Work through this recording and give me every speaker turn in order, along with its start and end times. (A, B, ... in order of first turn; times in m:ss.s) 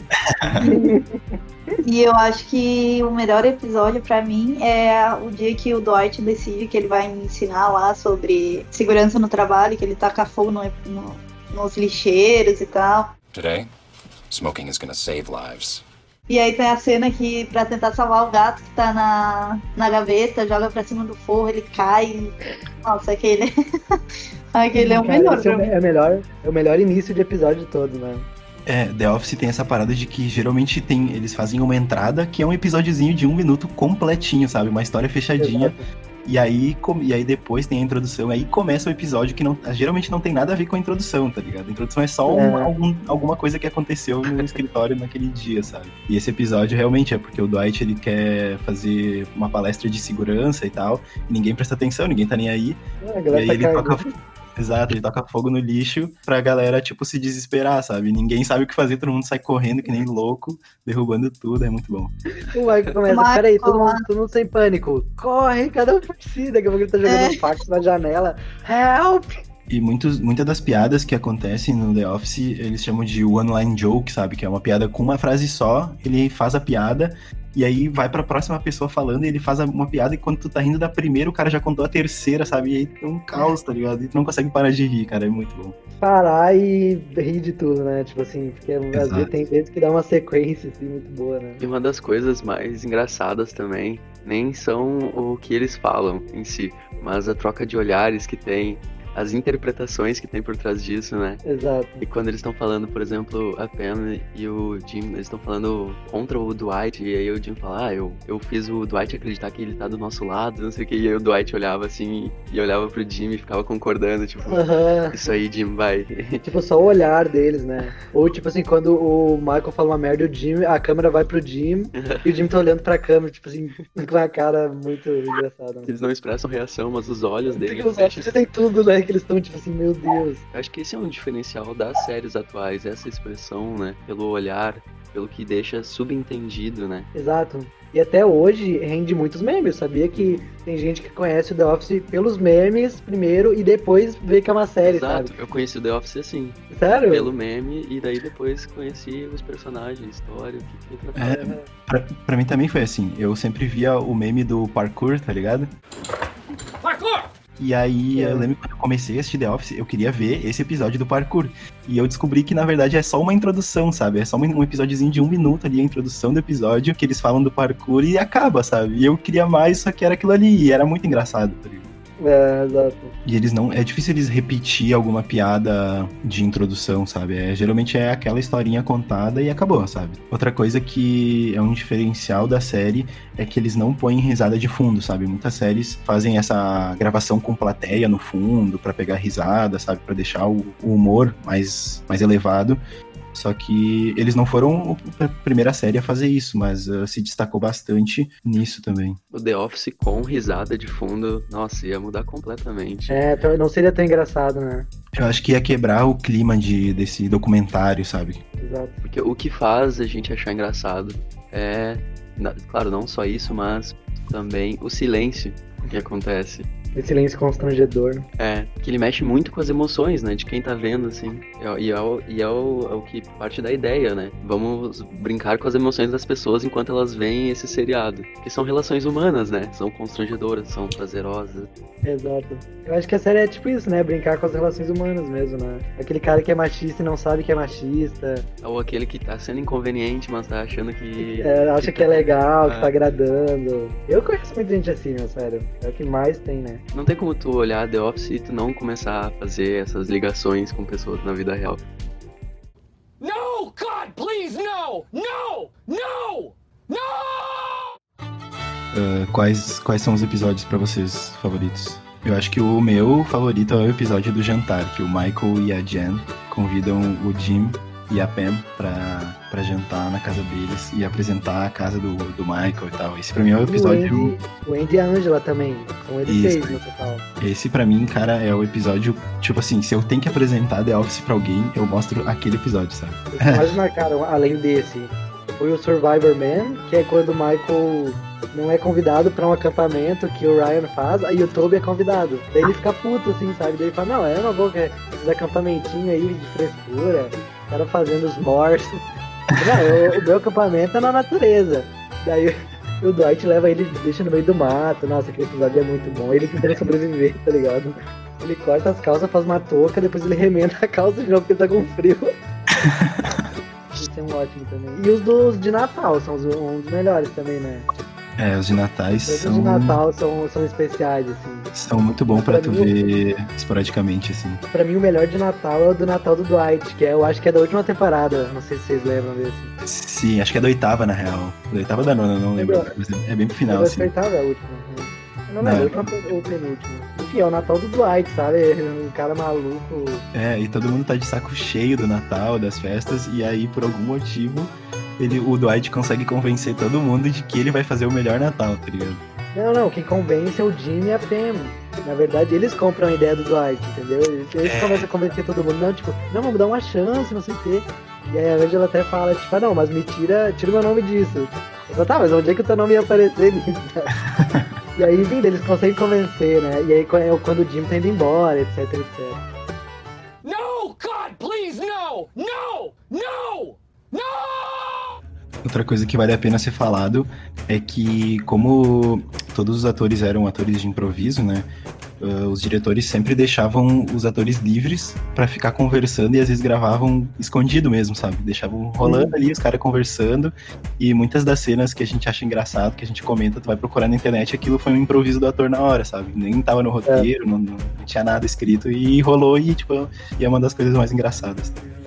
0:00.3-0:00.7 A
0:00.6-0:01.4 B
0:01.8-0:13.1 C
0:13.3-0:13.7 D
0:14.3-0:15.8 D
0:16.3-0:23.5 C
0:24.5-0:25.7 C
0:24.7-0:28.3 B
0:28.6-0:54.0 A
0:35.4-0:35.8 B
0:42.3-0:42.7 B
0:53.0-0:54.1 B
0:54.6-1:02.1 A
1:02.5-1:09.4 B
1:03.1-1:04.0 C
1:07.1-1:07.4 C
1:09.7-1:25.8 A
1:26.0-1:31.6 B
1:28.9-1:29.3 A
1:31.6-1:41.4 E
1:41.4-1:42.0 B
1:42.0-1:56.4 E
1:54.5-1:55.1 B
1:56.4-2:05.9 B
2:02.0-2:02.2 E
2:05.8-2:08.4 E
2:07.5-2:10.4 B
2:10.5-2:17.1 E
2:17.1-2:25.3 B
2:20.1-2:20.4 E
2:24.8-2:31.5 E
2:26.7-2:27.3 B
2:31.2-2:35.7 A
2:36.8-2:37.3 F
2:37.6-2:51.9 A
2:38.2-2:38.5 B
2:52.2-2:53.1 B
2:53.2-3:12.8 A
3:13.3-3:19.2 A
3:19.3-3:23.2 E
3:23.1-3:24.9 B
3:25.1-3:28.4 A
3:28.6-3:29.0 B
3:29.0-3:36.7 E
3:36.9-3:38.2 B
3:38.4-3:51.7 E
3:52.0-3:58.4 B
3:58.6-4:02.9 E
4:01.2-4:06.8 B
4:06.9-4:11.8 E
4:13.2-4:17.9 F
4:18.9-4:34.3 A
4:33.7-4:37.2 B
4:36.3-4:36.8 A
4:37.4-4:43.8 A
4:43.3-4:59.0 B
4:59.6-5:12.3 B
5:12.8-5:13.5 A
5:13.9-5:17.9 B
5:18.4-5:20.0 A
5:19.3-5:21.7 B
5:21.7-5:24.6 A
5:22.3-5:22.9 B
5:24.7-5:29.7 B
5:29.8-5:34.1 A
5:32.6-5:32.9 B
5:33.7-5:40.2 B
5:35.6-5:36.0 A
5:40.3-5:49.2 A
5:49.5-6:04.2 B
5:54.6-5:55.0 A
6:04.4-6:04.6 A
6:04.9-6:09.4 B
6:10.4-6:15.1 F
6:15.6-6:21.7 A
6:22.2-6:41.8 A
6:29.0-6:29.3 B